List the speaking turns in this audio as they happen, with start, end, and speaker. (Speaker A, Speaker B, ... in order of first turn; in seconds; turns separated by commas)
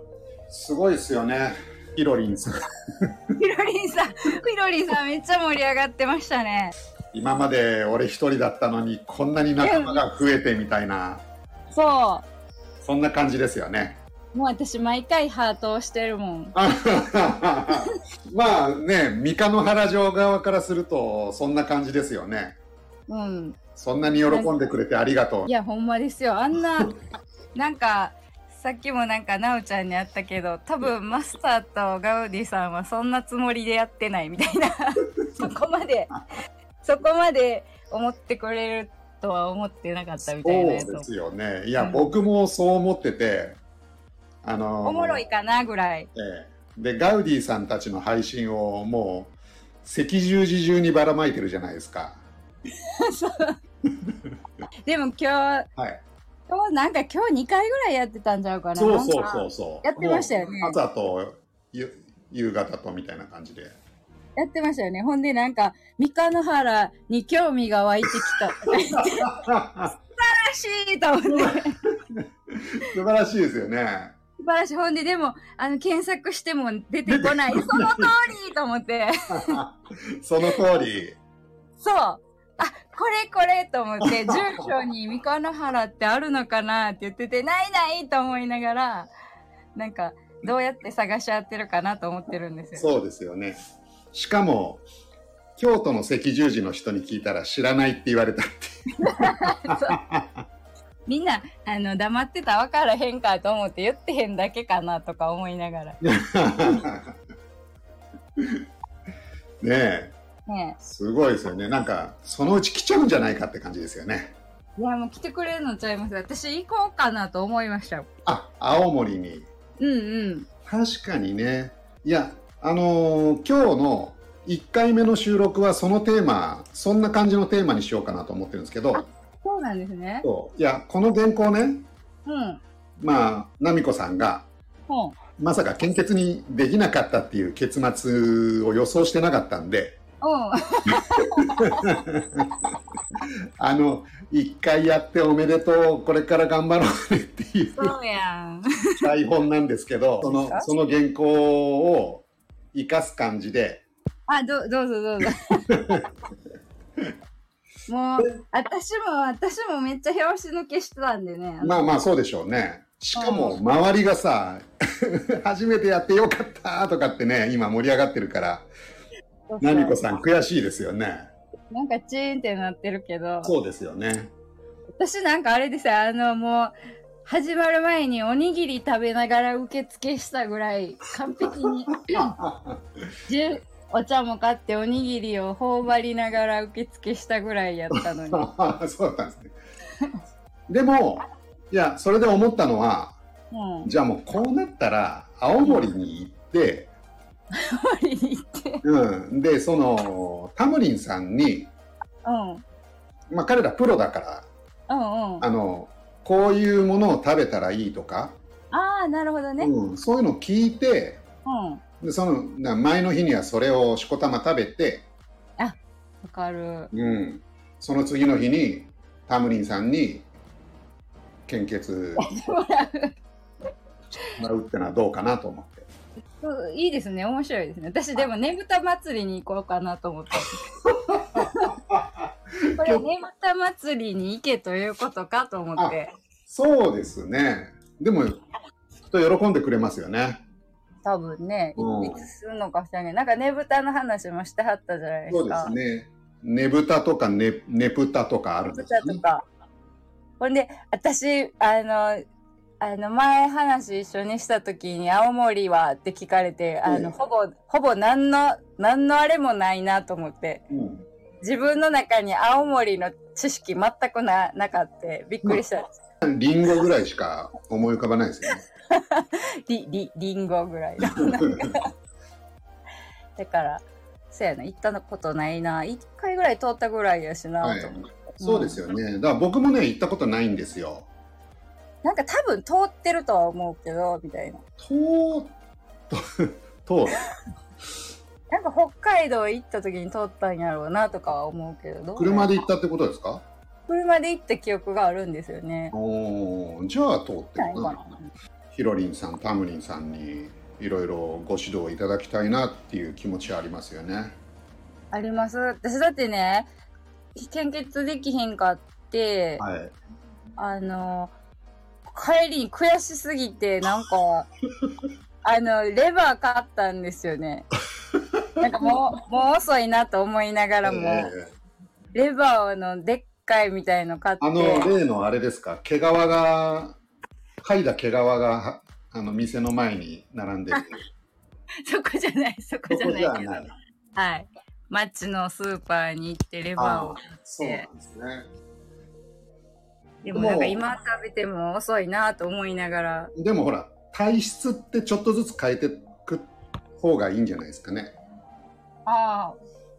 Speaker A: 0.5-2.6, Speaker B: 3.4-6.7, Speaker A: 7.1-11.2, Speaker B: 9.6-10.0, Speaker B: 11.7-12.3, Speaker A: 12.8-14.0, Speaker B: 14.3-16.5, Speaker A: 16.6-22.6, Speaker B: 23.1-23.6, Speaker A: 23.8-25.5, Speaker B: 24.3-24.5, Speaker B: 25.5-27.0, Speaker B: 27.6-36.1, Speaker B: 36.8-41.1, Speaker A: 40.4-43.6, Speaker B: 41.8-42.1, Speaker A: 44.4-45.2, Speaker B: 44.8-46.1, Speaker A: 46.1-52.2, Speaker B: 53.0-53.5, Speaker B: 54.9-55.7, Speaker A: 55.8-56.0, Speaker B: 56.5-60.8, Speaker A: 58.8-63.8, Speaker B: 64.4-69.4, Speaker A: 69.0-69.9, Speaker B: 70.2-71.8, Speaker A: 71.3-71.6, Speaker A: 72.1-74.1, Speaker B: 74.4-79.6, Speaker A: 77.1-78.1, Speaker A: 79.3-81.2, Speaker B: 81.8-89.1, Speaker A: 84.0-84.7, Speaker B: 89.8-92.9, Speaker A: 92.8-93.6, Speaker A: 94.1-94.8, Speaker A: 95.6-100.4, Speaker B: 99.0-100.0, Speaker B: 101.1-106.0, Speaker A: 106.0-107.2, Speaker A: 109.6-110.2, Speaker B: 110.5-110.8, Speaker A: 110.8-114.3, Speaker B: 114.8-118.1, Speaker A: 118.3-119.5, Speaker B: 119.8-120.5, Speaker A: 120.7-129.0, Speaker B: 128.9-130.3, Speaker A: 130.2-131.9, Speaker B: 132.3-132.6, Speaker A: 133.0-134.5, Speaker B: 134.9-135.2, Speaker A: 135.4-140.0, Speaker B: 140.2-141.9, Speaker A: 141.4-142.5, Speaker A: 143.6-147.9, Speaker B: 147.8-148.6, Speaker A: 149.0-153.8, Speaker B: 150.2-150.7, Speaker B: 154.3-156.0, Speaker A: 155.8-156.1, Speaker B: 157.9-161.9, Speaker A: 161.6-168.7, Speaker B: 163.1-163.6, Speaker B: 169.5-170.2, Speaker A: 169.6-171.3, Speaker B: 171.7-173.5, Speaker A: 173.4-174.3, Speaker B: 175.0-176.7, Speaker B: 177.2-182.4, Speaker A: 182.2-182.8, Speaker B: 183.3-188.5, Speaker A: 188.0-189.5, Speaker A: 190.7-193.2, Speaker B: 193.5-193.9, Speaker A: 193.8-196.9, Speaker B: 195.6-195.9, Speaker B: 197.5-198.8, Speaker A: 198.8-201.7, Speaker B: 202.2-202.6, Speaker A: 203.3-204.5, Speaker B: 204.9-205.4, Speaker A: 205.4-208.4, Speaker B: 208.7-209.7, Speaker A: 209.6-211.2, Speaker B: 211.4-211.8, Speaker A: 212.0-215.1, Speaker B: 215.6-216.9, Speaker A: 216.9-220.3, Speaker A: 221.5-222.3, Speaker B: 222.2-223.1, Speaker A: 224.3-225.9, Speaker B: 226.4-231.7, Speaker A: 231.1-233.0, Speaker B: 232.8-236.1, Speaker A: 236.5-238.4, Speaker A: 239.1-240.4, Speaker B: 241.0-245.7, Speaker A: 241.8-242.3, Speaker A: 245.3-249.2, Speaker B: 248.7-249.4, Speaker B: 250.4-252.2, Speaker B: 252.8-260.6, Speaker A: 256.9-257.1, Speaker A: 260.7-261.1, Speaker B: 261.4-265.9, Speaker A: 266.2-268.6, Speaker B: 268.9-271.9, Speaker A: 271.1-271.7, Speaker B: 273.4-278.8, Speaker A: 277.6-281.1, Speaker B: 282.0-284.6, Speaker A: 284.8-285.5, Speaker A: 286.1-287.2, Speaker B: 288.5-292.6, Speaker A: 292.2-293.4, Speaker B: 293.9-295.9, Speaker A: 295.9-298.0, Speaker B: 297.6-298.3, Speaker A: 298.7-304.4, Speaker B: 305.1-306.7, Speaker B: 307.4-309.6, Speaker A: 309.6-309.9, Speaker B: 310.6-311.3, Speaker B: 312.1-314.5, Speaker B: 315.4-317.7, Speaker B: 318.6-321.3, Speaker A: 320.8-321.5, Speaker B: 322.1-324.9, Speaker A: 324.4-327.0, Speaker A: 327.6-331.0, Speaker B: 331.9-333.6, Speaker A: 332.9-333.8, Speaker B: 334.2-337.9, Speaker A: 336.8-338.5, Speaker B: 340.2-343.3, Speaker A: 340.3-340.8, Speaker A: 343.4-348.2, Speaker B: 349.1-349.6